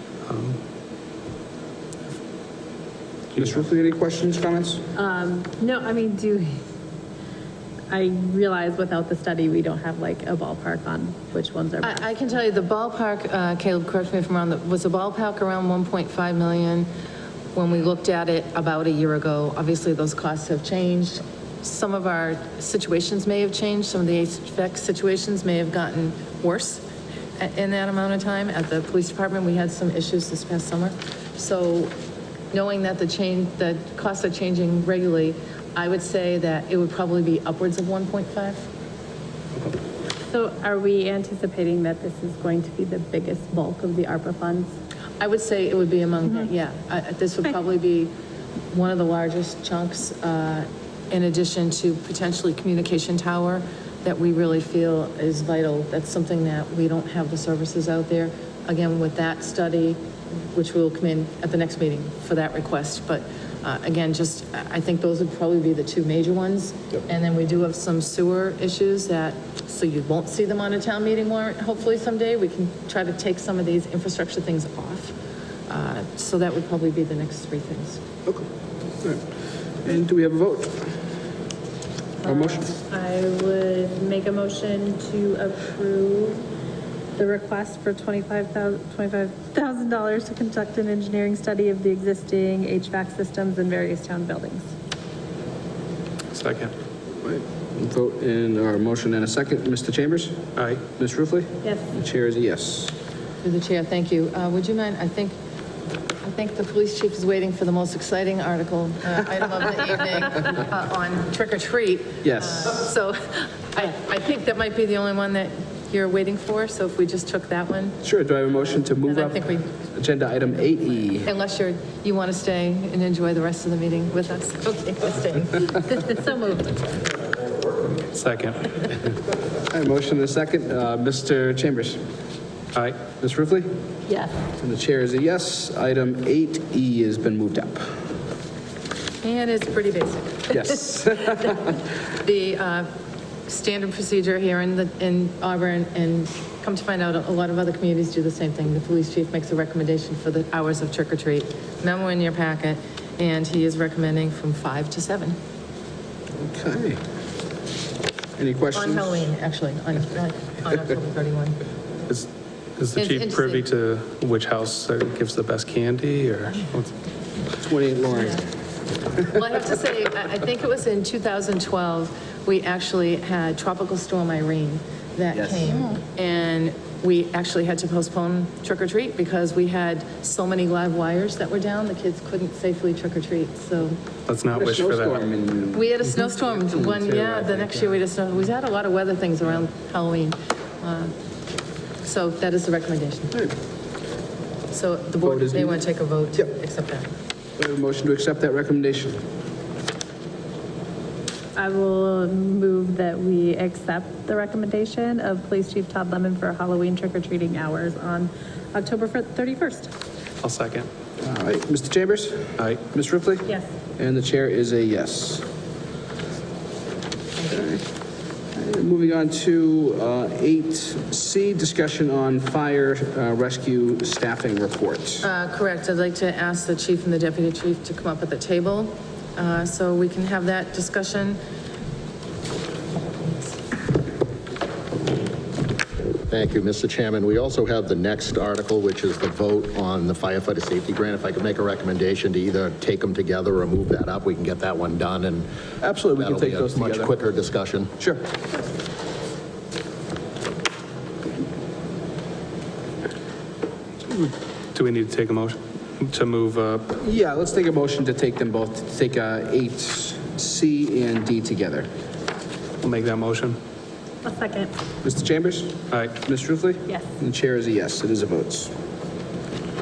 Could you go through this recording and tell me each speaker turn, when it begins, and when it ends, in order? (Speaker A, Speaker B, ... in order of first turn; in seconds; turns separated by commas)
Speaker A: 0.3-0.6, Speaker A: 3.4-3.6, Speaker B: 3.4-4.8, Speaker C: 5.0-6.5, Speaker C: 7.9-12.0, Speaker D: 11.8-16.9, Speaker D: 17.6-26.8, Speaker D: 27.4-31.9, Speaker D: 32.5-38.6, Speaker C: 40.3-44.7, Speaker D: 45.2-48.1, Speaker D: 48.7-60.0, Speaker D: 60.5-75.2, Speaker D: 75.7-78.0, Speaker B: 79.8-80.9, Speaker C: 82.2-86.4, Speaker B: 82.2-82.7, Speaker C: 87.2-94.7, Speaker A: 96.3-96.7, Speaker B: 97.2-100.4, Speaker A: 100.6-100.8, Speaker B: 101.0-102.9, Speaker C: 101.6-101.9, Speaker D: 103.4-105.3, Speaker D: 106.2-118.0, Speaker B: 112.2-112.8, Speaker B: 118.0-121.3, Speaker D: 119.1-119.7, Speaker D: 121.2-125.7, Speaker C: 125.8-127.0, Speaker A: 128.1-128.8, Speaker B: 129.7-132.0, Speaker A: 132.7-133.0, Speaker B: 133.2-133.7, Speaker C: 134.1-134.4, Speaker B: 134.6-137.8, Speaker D: 139.2-141.7, Speaker B: 140.5-141.6, Speaker D: 142.2-142.9, Speaker D: 143.5-155.3, Speaker B: 156.4-157.0, Speaker B: 158.4-159.3, Speaker D: 158.7-161.6, Speaker A: 162.1-166.9, Speaker D: 163.0-163.6, Speaker B: 167.6-168.4, Speaker D: 169.3-184.0, Speaker B: 175.3-175.7, Speaker A: 184.3-185.2, Speaker B: 184.5-187.9, Speaker D: 185.7-191.1, Speaker D: 192.0-193.4, Speaker D: 194.7-197.1, Speaker B: 195.2-195.8, Speaker B: 197.6-199.2, Speaker C: 201.6-209.9, Speaker A: 210.4-210.9, Speaker B: 211.2-213.5, Speaker B: 214.0-215.4, Speaker B: 217.4-217.8, Speaker B: 218.5-225.2, Speaker D: 225.2-231.4, Speaker E: 236.3-245.5, Speaker B: 245.8-247.2, Speaker E: 246.2-247.9, Speaker A: 254.1-257.0, Speaker B: 257.0-261.9, Speaker A: 262.8-263.6, Speaker C: 264.2-264.7, Speaker B: 265.0-268.7, Speaker A: 265.9-266.2